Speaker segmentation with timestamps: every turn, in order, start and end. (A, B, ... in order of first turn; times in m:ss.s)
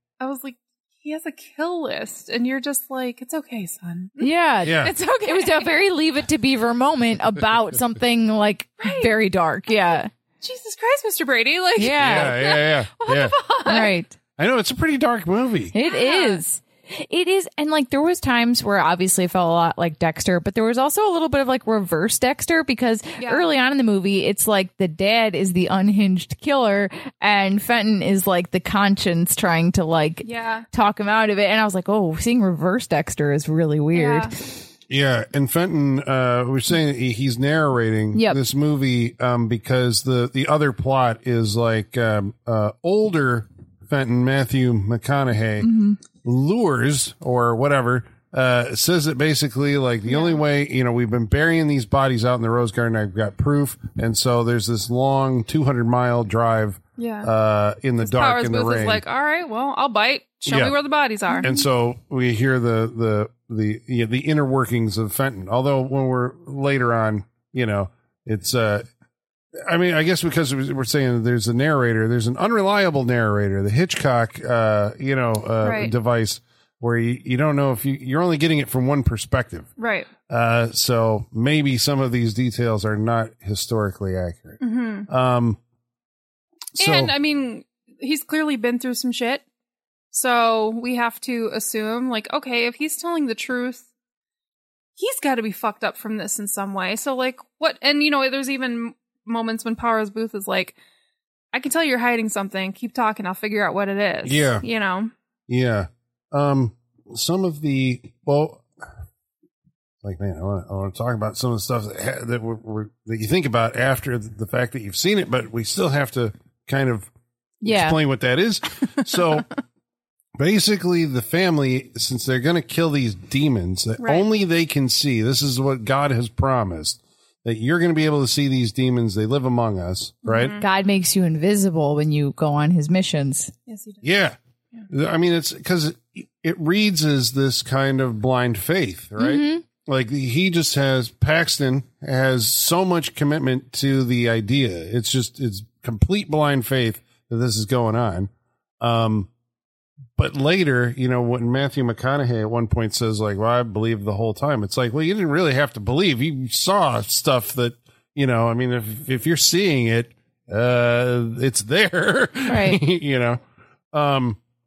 0:00.2-0:05.7 A
0:04.2-0:10.1 B
0:04.6-0:04.9 C
0:08.8-0:09.1 A
0:10.4-0:13.9 A
0:11.8-0:12.4 B
0:11.9-0:13.4 C
0:13.6-0:14.2 B
0:14.4-0:15.7 C
0:15.7-0:34.4 B
0:15.8-0:16.4 A
0:23.2-0:23.4 A
0:30.2-0:30.6 A
0:33.9-0:34.3 A
0:34.9-0:59.0 C
0:38.1-0:38.4 B
0:45.6-0:46.0 B
0:50.1-0:50.4 A
0:57.0-0:57.3 A
0:58.0-1:01.5 A
1:00.5-1:00.7 C
1:01.4-1:08.8 C
1:09.6-1:19.7 C
1:15.6-1:15.9 A
1:19.8-1:20.1 A
1:20.3-1:25.6 C
1:24.6-1:25.1 A
1:26.8-1:27.1 C
1:26.8-1:29.4 A
1:30.1-1:33.8 A
1:35.0-1:40.7 A
1:41.5-1:45.1 A
1:44.2-1:44.6 C
1:45.5-1:48.6 C
1:50.0-1:57.1 C
1:57.6-1:58.0 B
1:57.6-1:59.5 C
2:00.4-2:10.6 C
2:04.0-2:04.2 A
2:10.2-2:10.6 A
2:10.6-2:13.5 B
2:13.7-2:14.0 A
2:14.0-2:14.4 C
2:14.9-2:28.3 C
2:19.2-2:19.6 B
2:28.8-2:29.3 C
2:30.2-2:43.4 C
2:42.5-2:42.8 B
2:43.9-2:44.4 C